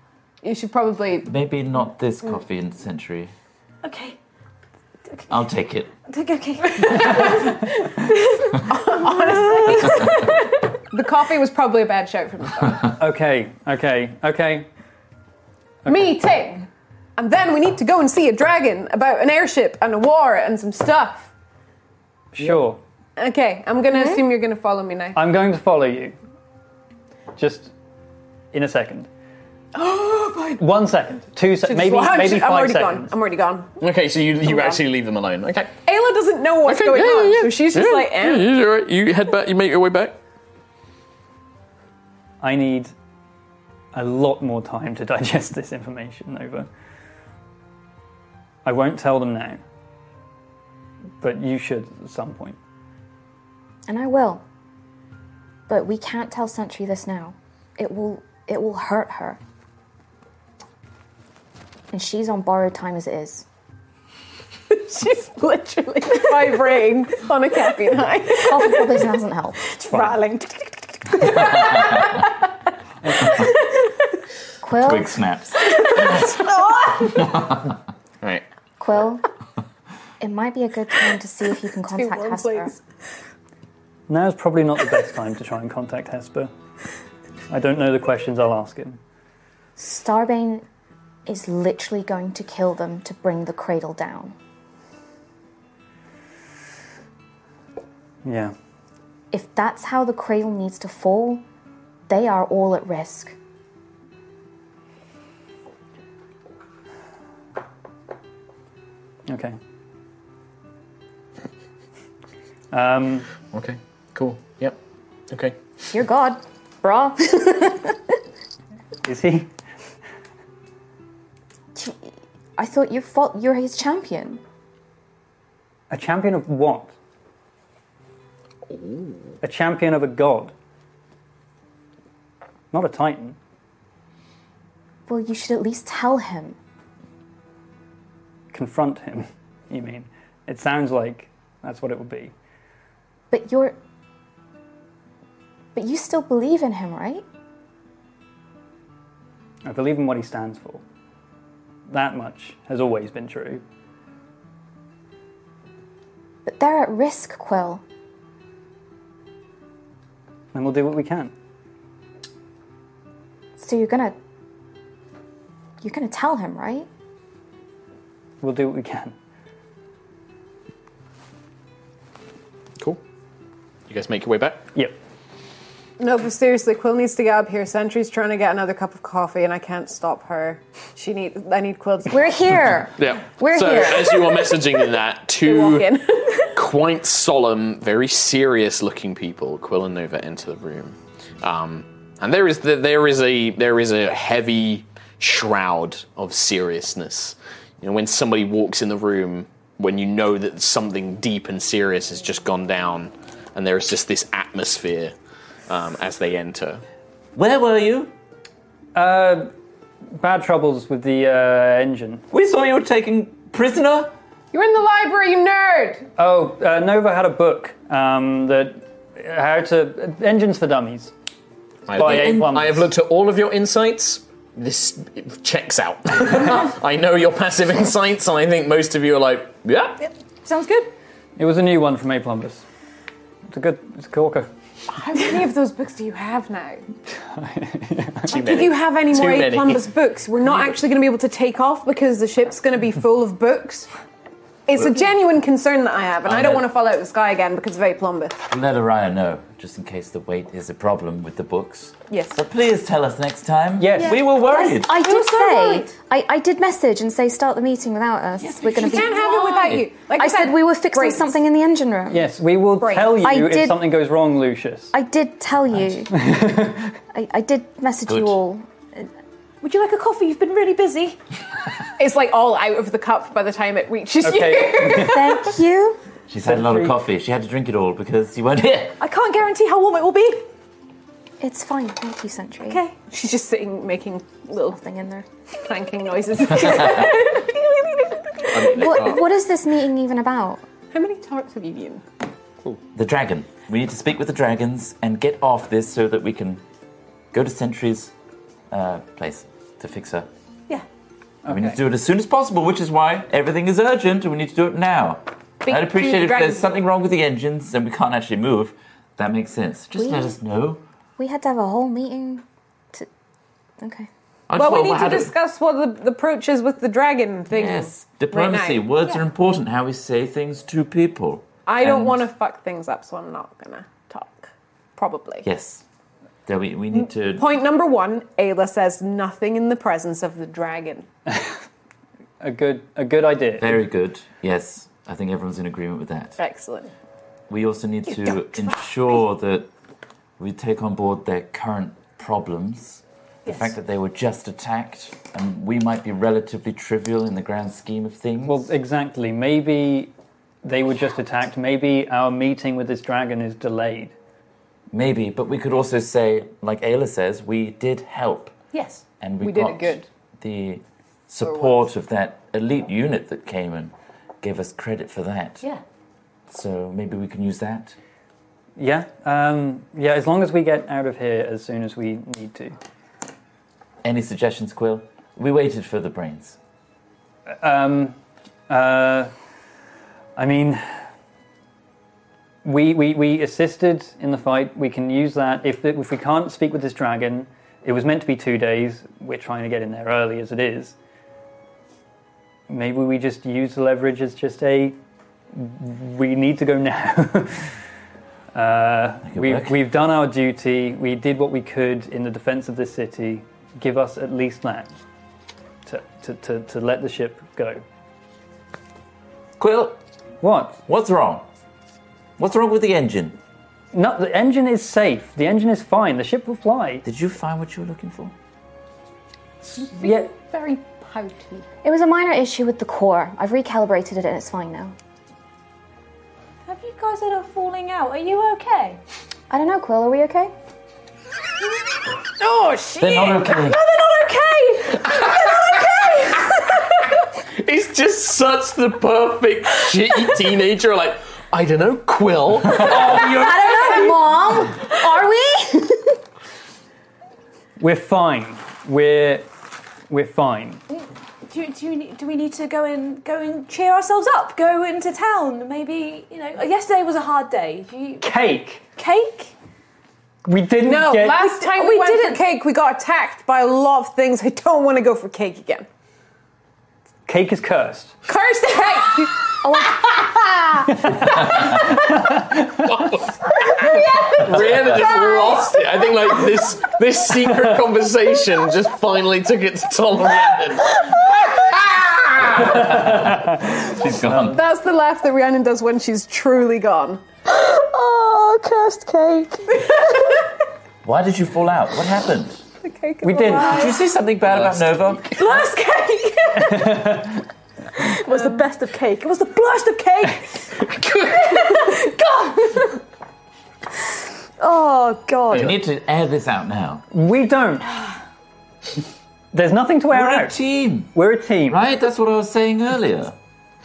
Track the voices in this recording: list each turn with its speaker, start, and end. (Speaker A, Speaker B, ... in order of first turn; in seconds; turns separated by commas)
Speaker A: 0.4-1.3, Speaker B: 1.2-3.3, Speaker C: 3.8-4.2, Speaker B: 5.3-5.9, Speaker C: 6.1-10.3, Speaker A: 6.7-7.4, Speaker A: 8.7-12.9, Speaker D: 13.0-14.7, Speaker A: 15.8-21.3, Speaker D: 22.3-22.8, Speaker A: 23.2-25.2, Speaker D: 25.1-26.1, Speaker D: 27.4-27.7, Speaker D: 28.5-29.1, Speaker A: 29.7-30.6, Speaker D: 30.6-33.1, Speaker A: 31.6-33.8, Speaker E: 33.8-35.7, Speaker A: 34.4-34.8, Speaker A: 35.8-38.5, Speaker E: 36.6-40.2, Speaker D: 42.4-42.9, Speaker D: 43.9-46.7, Speaker D: 48.6-49.6, Speaker D: 51.2-52.6, Speaker F: 53.9-54.4, Speaker F: 55.7-59.4, Speaker F: 61.9-63.4, Speaker A: 64.7-69.0, Speaker F: 68.4-69.6, Speaker A: 69.7-72.4, Speaker B: 71.3-72.1, Speaker A: 73.1-73.8, Speaker F: 74.6-75.2, Speaker B: 74.8-76.2, Speaker A: 75.7-77.2, Speaker B: 77.1-77.7, Speaker F: 78.8-79.2, Speaker F: 80.2-82.7, Speaker A: 81.9-82.8, Speaker D: 84.1-86.5, Speaker D: 87.5-89.0, Speaker F: 89.8-90.6, Speaker F: 91.2-94.3, Speaker D: 98.2-98.5, Speaker F: 99.3-101.4, Speaker F: 102.1-103.3, Speaker D: 109.3-109.5, Speaker D: 112.7-113.3, Speaker E: 113.5-114.8, Speaker E: 115.3-115.6, Speaker F: 115.9-118.1, Speaker D: 119.0-119.5, Speaker F: 122.6-124.4, Speaker D: 125.9-126.9, Speaker E: 128.7-129.3, Speaker D: 129.4-130.5, Speaker D: 132.7-133.4, Speaker F: 135.1-136.6, Speaker D: 138.5-142.3, Speaker F: 143.3-143.8, Speaker F: 145.7-147.2, Speaker D: 149.6-150.8, Speaker D: 151.9-153.6, Speaker F: 156.4-157.8, Speaker D: 160.5-161.3, Speaker F: 163.6-164.1, Speaker F: 165.8-166.9, Speaker D: 168.4-169.1, Speaker E: 173.9-174.6, Speaker A: 176.0-182.6, Speaker F: 182.1-184.4, Speaker E: 183.0-205.1, Speaker A: 185.4-186.5, Speaker E: 205.7-206.8, Speaker B: 207.3-208.1, Speaker D: 208.9-209.5, Speaker D: 210.1-212.2, Speaker B: 212.3-214.1, Speaker A: 214.5-216.1, Speaker D: 216.2-221.1, Speaker E: 221.9-230.0, Speaker D: 221.9-222.8, Speaker B: 222.1-222.5, Speaker C: 230.4-230.9, Speaker D: 231.4-232.6, Speaker D: 233.5-234.5, Speaker A: 234.9-236.8, Speaker D: 237.1-238.3, Speaker E: 238.3-239.9, Speaker A: 238.3-243.9, Speaker E: 240.4-240.8, Speaker A: 244.7-248.4, Speaker B: 246.2-246.6, Speaker B: 248.5-255.0, Speaker A: 252.1-252.4, Speaker D: 253.8-254.2, Speaker C: 254.0-255.8, Speaker F: 254.8-262.3, Speaker A: 254.9-255.9, Speaker A: 258.6-261.4, Speaker C: 258.6-259.8, Speaker D: 262.1-264.9, Speaker A: 262.8-263.3, Speaker F: 263.2-263.8, Speaker F: 264.9-266.1, Speaker D: 266.1-266.9, Speaker F: 267.1-269.1, Speaker B: 268.1-268.4, Speaker C: 269.6-271.2, Speaker A: 272.0-275.4, Speaker D: 274.2-275.3, Speaker F: 275.0-276.0, Speaker B: 276.3-279.0, Speaker D: 276.4-276.9, Speaker C: 279.0-280.5, Speaker F: 281.4-282.8, Speaker C: 282.6-283.0, Speaker A: 283.0-284.8, Speaker F: 284.7-285.2, Speaker A: 285.6-288.8, Speaker E: 288.5-289.2, Speaker F: 288.6-290.6, Speaker A: 290.9-292.0, Speaker B: 292.9-296.6, Speaker B: 297.3-298.1, Speaker B: 298.7-300.3, Speaker D: 301.4-301.8, Speaker B: 301.5-310.8, Speaker A: 305.6-306.7, Speaker F: 310.0-310.3, Speaker F: 311.2-313.1, Speaker F: 313.8-314.1, Speaker B: 314.5-315.3, Speaker A: 314.5-318.9, Speaker B: 317.5-322.3, Speaker A: 321.7-325.4, Speaker B: 325.4-325.8, Speaker B: 326.4-327.5, Speaker A: 326.9-331.1, Speaker D: 332.4-333.8, Speaker B: 333.6-336.4, Speaker A: 336.4-336.9, Speaker B: 337.5-339.7, Speaker B: 340.4-348.6, Speaker C: 343.4-343.7, Speaker D: 348.4-350.1, Speaker D: 350.6-354.1, Speaker B: 354.9-358.5, Speaker C: 358.7-359.0, Speaker B: 359.2-365.6, Speaker A: 359.4-360.1, Speaker A: 361.4-361.8, Speaker B: 366.5-367.9, Speaker D: 368.8-372.8, Speaker B: 374.0-376.6, Speaker D: 377.5-378.2, Speaker D: 378.7-379.3, Speaker D: 380.4-381.0, Speaker D: 382.6-390.9, Speaker D: 392.7-394.9, Speaker D: 395.5-397.7, Speaker D: 398.5-404.9, Speaker B: 399.2-399.8, Speaker D: 405.9-407.8, Speaker B: 409.6-410.0, Speaker D: 410.4-410.8, Speaker B: 410.9-411.4, Speaker B: 412.4-413.4, Speaker D: 413.9-417.0, Speaker B: 417.0-418.3, Speaker D: 419.7-420.2, Speaker C: 420.0-420.3, Speaker A: 420.0-421.6, Speaker F: 421.8-424.9, Speaker C: 426.6-429.0, Speaker F: 429.5-430.5, Speaker A: 432.4-434.7, Speaker B: 433.0-433.8, Speaker C: 433.5-435.2, Speaker E: 435.1-435.6, Speaker E: 437.6-443.9, Speaker B: 442.9-443.3, Speaker F: 442.9-446.2, Speaker C: 443.9-444.2, Speaker D: 447.8-449.5, Speaker D: 450.1-450.8, Speaker C: 451.5-458.2, Speaker D: 458.2-458.8, Speaker C: 458.9-459.5, Speaker D: 460.4-461.4, Speaker A: 460.8-465.9, Speaker C: 461.3-462.4, Speaker D: 467.3-468.1, Speaker A: 468.3-472.0, Speaker F: 469.6-470.0, Speaker D: 471.0-471.3, Speaker D: 471.9-472.6, Speaker E: 472.6-483.1, Speaker A: 473.7-475.9, Speaker B: 482.4-484.6, Speaker D: 482.9-484.4, Speaker A: 484.3-487.2, Speaker C: 487.5-490.2, Speaker A: 489.7-490.4, Speaker B: 491.0-492.6, Speaker A: 492.8-494.0, Speaker D: 493.2-493.9, Speaker B: 493.7-495.4, Speaker E: 493.8-495.3, Speaker A: 495.4-496.8, Speaker C: 496.6-496.8, Speaker D: 496.6-497.4, Speaker C: 498.0-503.0, Speaker C: 504.6-505.7, Speaker E: 505.5-505.8, Speaker B: 505.5-507.0, Speaker D: 507.1-508.0, Speaker D: 509.5-510.6, Speaker B: 510.1-511.1, Speaker D: 511.1-511.8, Speaker B: 511.6-513.4